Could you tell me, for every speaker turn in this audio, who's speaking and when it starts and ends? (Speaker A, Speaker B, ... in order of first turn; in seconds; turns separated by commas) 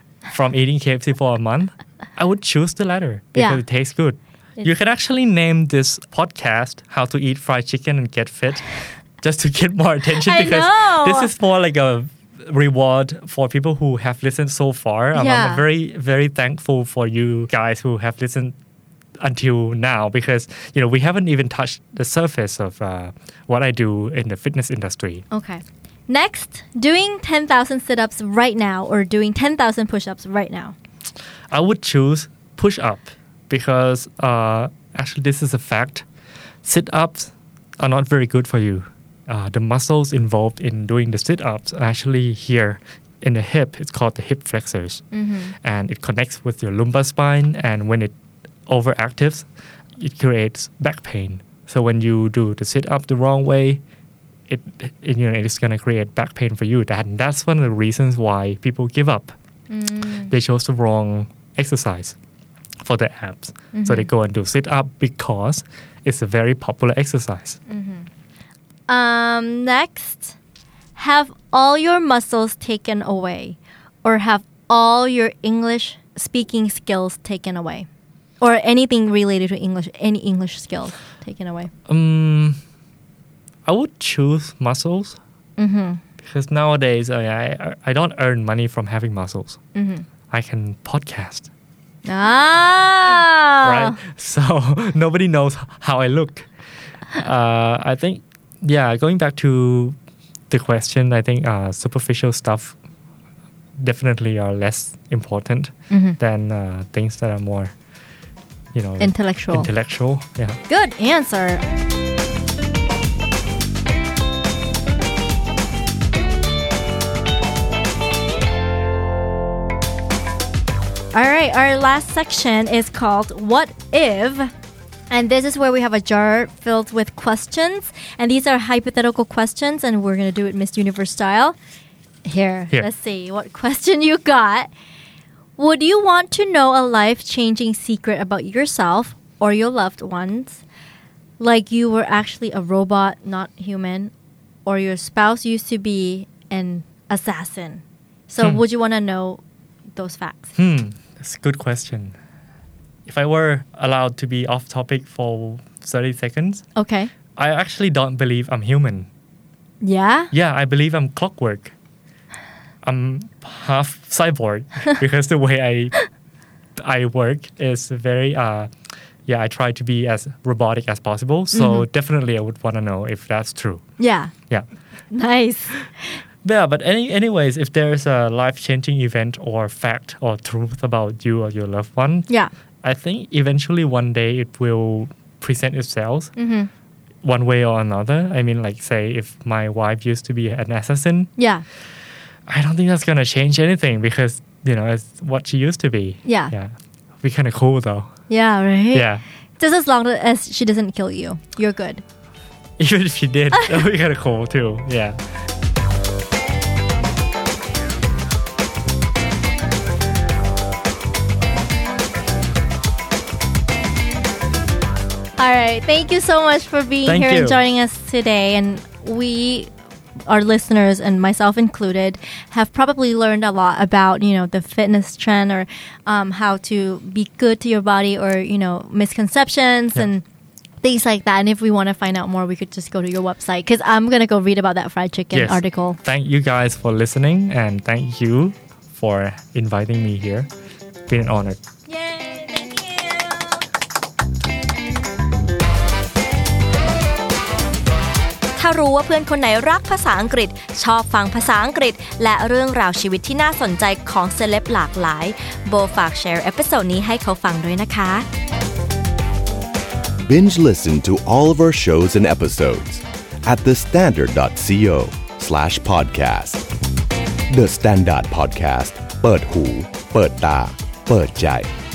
Speaker A: 0.3-18.6, Speaker B: 3.4-3.6, Speaker B: 10.2-11.3, Speaker B: 15.1-15.6, Speaker A: 19.2-25.2, Speaker B: 25.3-30.8, Speaker A: 31.5-36.1, Speaker A: 36.6-45.0, Speaker B: 45.1-45.5, Speaker A: 45.6-48.1, Speaker A: 48.7-53.8, Speaker A: 54.5-59.3, Speaker B: 59.7-60.3, Speaker A: 60.3-62.2, Speaker A: 62.8-67.6, Speaker B: 63.7-64.1, Speaker B: 67.7-68.1, Speaker B: 68.9-70.4, Speaker B: 71.0-77.9, Speaker B: 78.4-81.7, Speaker A: 81.9-82.6, Speaker A: 83.7-85.2, Speaker B: 85.6-86.0, Speaker A: 86.2-89.6, Speaker B: 89.7-90.1, Speaker A: 90.3-91.5, Speaker B: 92.1-94.0, Speaker A: 93.6-96.5, Speaker A: 97.1-100.0, Speaker A: 100.5-102.8, Speaker A: 103.8-107.7, Speaker B: 105.9-106.2, Speaker A: 108.7-110.6, Speaker B: 109.0-109.7, Speaker B: 110.7-111.6, Speaker B: 121.1-124.5, Speaker B: 125.1-131.6, Speaker B: 132.2-134.7, Speaker B: 135.6-140.6, Speaker B: 141.4-144.1, Speaker B: 144.7-149.4, Speaker B: 149.9-150.6, Speaker A: 150.6-152.2, Speaker A: 153.1-156.6, Speaker B: 156.8-157.1, Speaker A: 157.4-159.1, Speaker B: 159.8-160.3, Speaker A: 160.3-161.7, Speaker A: 162.8-165.9, Speaker A: 166.8-168.7, Speaker A: 169.3-173.8, Speaker B: 171.5-171.9, Speaker B: 174.0-174.3, Speaker B: 175.1-176.2, Speaker A: 176.4-182.3, Speaker A: 182.8-186.3, Speaker B: 186.4-186.7, Speaker A: 187.2-191.3, Speaker B: 191.4-191.6, Speaker A: 192.5-198.1, Speaker B: 196.2-196.5, Speaker B: 198.3-199.1, Speaker A: 198.9-199.2, Speaker B: 199.6-202.0, Speaker A: 202.8-205.2, Speaker B: 215.4-219.7, Speaker A: 217.1-217.6, Speaker B: 220.3-230.2, Speaker B: 230.8-236.0, Speaker A: 235.3-240.5, Speaker A: 241.1-241.6, Speaker B: 241.9-243.7, Speaker B: 248.6-258.3, Speaker C: 260.2-266.7, Speaker C: 267.5-271.7